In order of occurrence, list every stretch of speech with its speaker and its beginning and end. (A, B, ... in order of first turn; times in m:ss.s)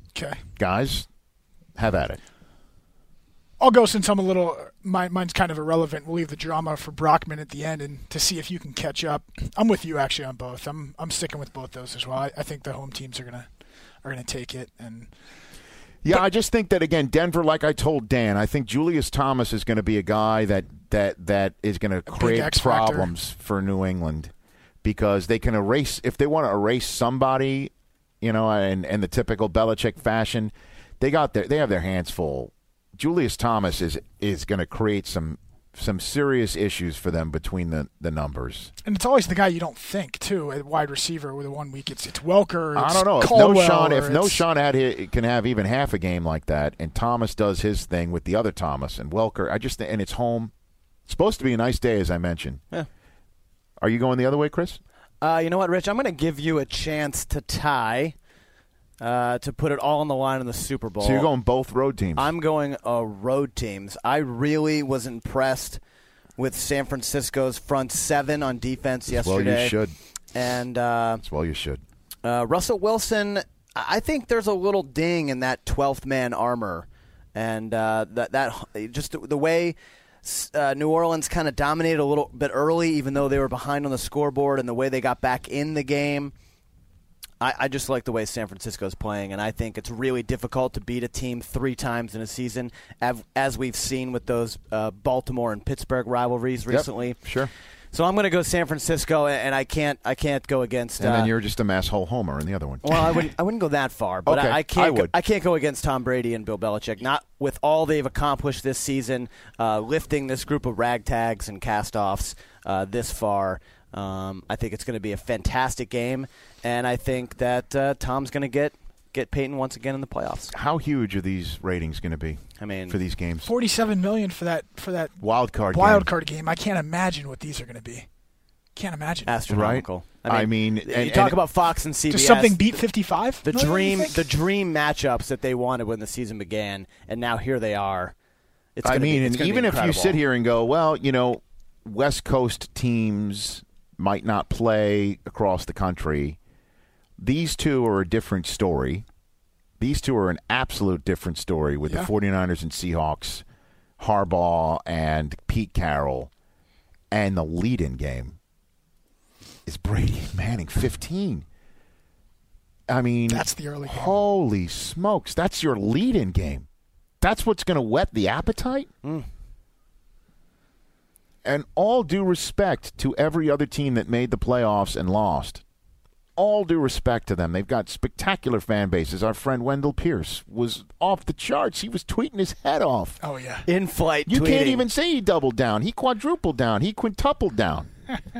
0:00.1-0:00.4 A
0:00.6-0:01.0 B
0:01.8-0:02.2 B
0:03.6-0:13.5 A
0:14.0-0:15.1 A
0:16.0-0:24.3 B
0:22.1-0:23.1 A
0:24.8-0:38.7 B
0:38.8-0:44.4 A
0:42.7-0:50.5 B
0:51.1-0:52.6 B
0:53.8-0:54.8 B
0:55.2-0:58.1 C
0:59.0-1:01.3 C
1:01.0-1:02.3 B
1:02.2-1:05.8 C
1:06.4-1:09.8 C
1:09.1-1:09.9 B
1:10.3-1:11.2 C
1:11.2-1:11.8 B
1:12.2-1:26.3 C
1:27.4-1:37.2 C
1:36.7-1:37.5 B
1:37.9-1:41.3 C
1:41.0-1:43.3 B
1:42.8-2:00.5 C
1:44.2-1:45.1 B
2:00.5-2:03.5 B
2:02.6-2:03.0 C
2:03.4-2:05.2 A
2:05.2-2:06.1 B
2:05.7-2:08.1 A
2:08.8-2:09.4 A
2:09.2-2:12.8 C
2:09.5-2:11.4 B
2:12.1-2:14.2 A
2:13.4-2:18.1 C
2:18.8-2:20.2 C
2:18.8-2:26.4 B
2:27.2-2:29.0 B
2:29.8-2:33.4 B
2:34.0-2:36.3 B
2:37.1-2:38.4 B
2:39.6-2:41.4 B
2:42.9-2:46.6 B
2:43.3-2:44.2 A
2:47.2-2:48.9 B
2:51.4-2:55.6 B
2:56.4-3:03.2 B
3:03.2-3:03.7 A
3:03.7-3:04.8 C
3:04.3-3:07.9 B